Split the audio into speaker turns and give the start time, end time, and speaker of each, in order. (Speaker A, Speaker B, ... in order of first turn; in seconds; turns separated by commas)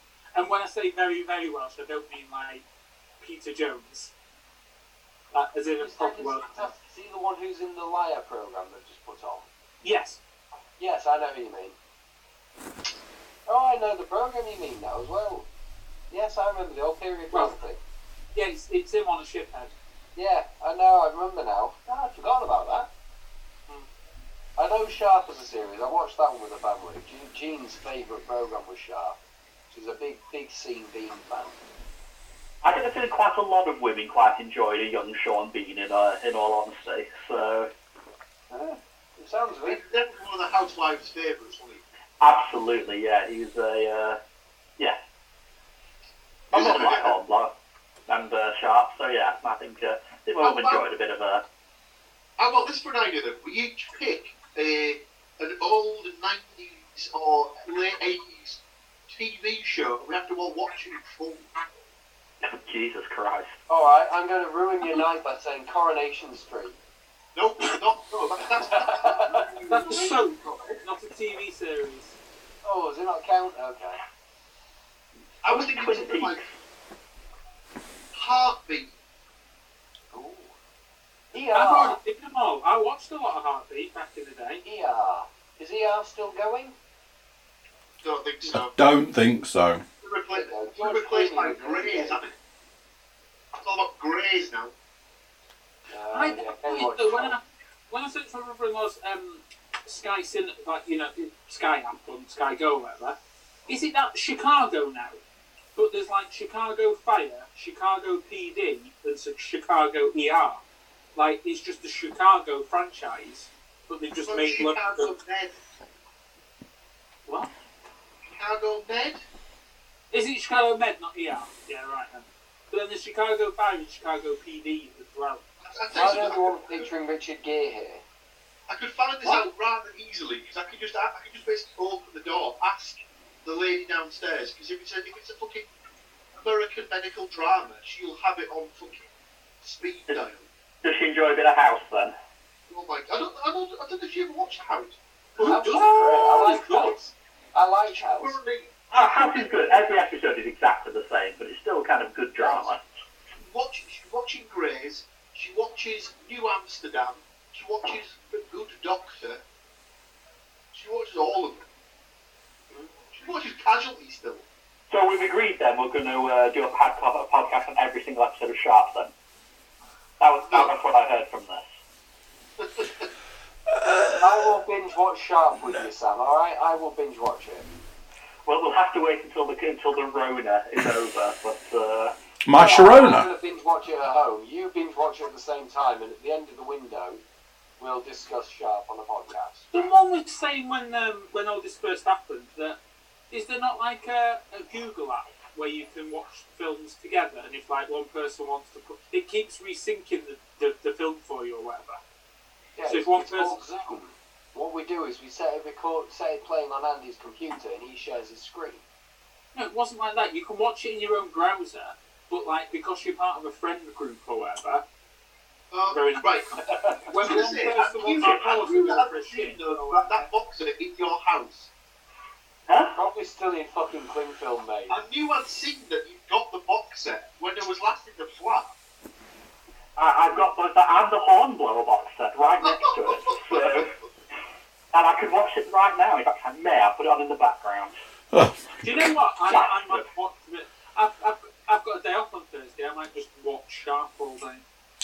Speaker A: 0.3-2.6, Speaker A: 3.2-4.1, Speaker A: 5.3-6.7, Speaker B: 5.8-9.4, Speaker A: 9.8-10.2, Speaker B: 10.8-11.7, Speaker B: 13.5-15.5, Speaker B: 16.1-17.8, Speaker A: 18.3-19.7, Speaker B: 20.1-22.9, Speaker B: 24.6-29.2, Speaker B: 29.7-31.6, Speaker C: 32.6-37.7, Speaker B: 38.5-39.8, Speaker D: 39.6-41.8, Speaker C: 42.2-44.2, Speaker D: 46.5-47.2, Speaker C: 46.5-47.5, Speaker C: 48.1-51.4, Speaker D: 50.4-50.9, Speaker D: 52.4-61.5, Speaker C: 62.4-63.5, Speaker B: 63.7-66.8, Speaker D: 67.3-70.8, Speaker B: 68.6-69.5, Speaker A: 69.7-72.2, Speaker B: 72.6-74.0, Speaker D: 75.4-76.4, Speaker C: 75.5-76.5, Speaker D: 78.1-78.9, Speaker B: 80.1-80.5, Speaker B: 81.3-82.0, Speaker A: 81.5-84.6, Speaker B: 84.6-86.7, Speaker D: 88.0-88.7, Speaker E: 88.5-89.8, Speaker D: 90.0-92.3, Speaker B: 90.3-92.2, Speaker D: 93.6-94.7, Speaker B: 95.9-97.3, Speaker A: 96.1-105.2, Speaker A: 105.7-110.6, Speaker A: 111.1-115.1, Speaker D: 114.2-115.5, Speaker D: 118.2-119.2, Speaker A: 120.1-125.4, Speaker D: 125.6-126.9, Speaker B: 125.9-128.0, Speaker D: 128.7-135.7, Speaker D: 136.3-139.1, Speaker D: 139.6-140.4, Speaker C: 140.8-142.1, Speaker D: 142.7-146.6, Speaker A: 145.4-146.9, Speaker B: 145.4-148.4, Speaker D: 147.9-149.8, Speaker C: 148.9-152.8, Speaker B: 152.4-152.7, Speaker D: 153.4-159.4, Speaker D: 160.7-161.7, Speaker D: 163.1-164.4, Speaker C: 164.9-169.1, Speaker C: 170.2-171.6, Speaker D: 170.5-170.7, Speaker D: 172.6-173.1, Speaker E: 173.7-174.5, Speaker B: 174.2-177.7, Speaker C: 178.4-182.1, Speaker E: 182.4-183.3, Speaker B: 182.5-187.2, Speaker B: 187.8-189.7, Speaker A: 189.7-192.8, Speaker A: 193.3-202.0, Speaker B: 202.8-208.8, Speaker A: 202.9-203.6, Speaker A: 209.5-214.8, Speaker D: 215.7-221.7, Speaker A: 215.9-220.2, Speaker B: 216.6-217.1, Speaker C: 218.2-218.6, Speaker C: 222.7-222.9, Speaker B: 222.9-225.0, Speaker D: 224.9-228.7, Speaker C: 229.9-233.9, Speaker D: 232.6-233.9, Speaker C: 234.9-237.9, Speaker E: 238.3-239.0, Speaker A: 238.8-244.6, Speaker C: 239.5-240.0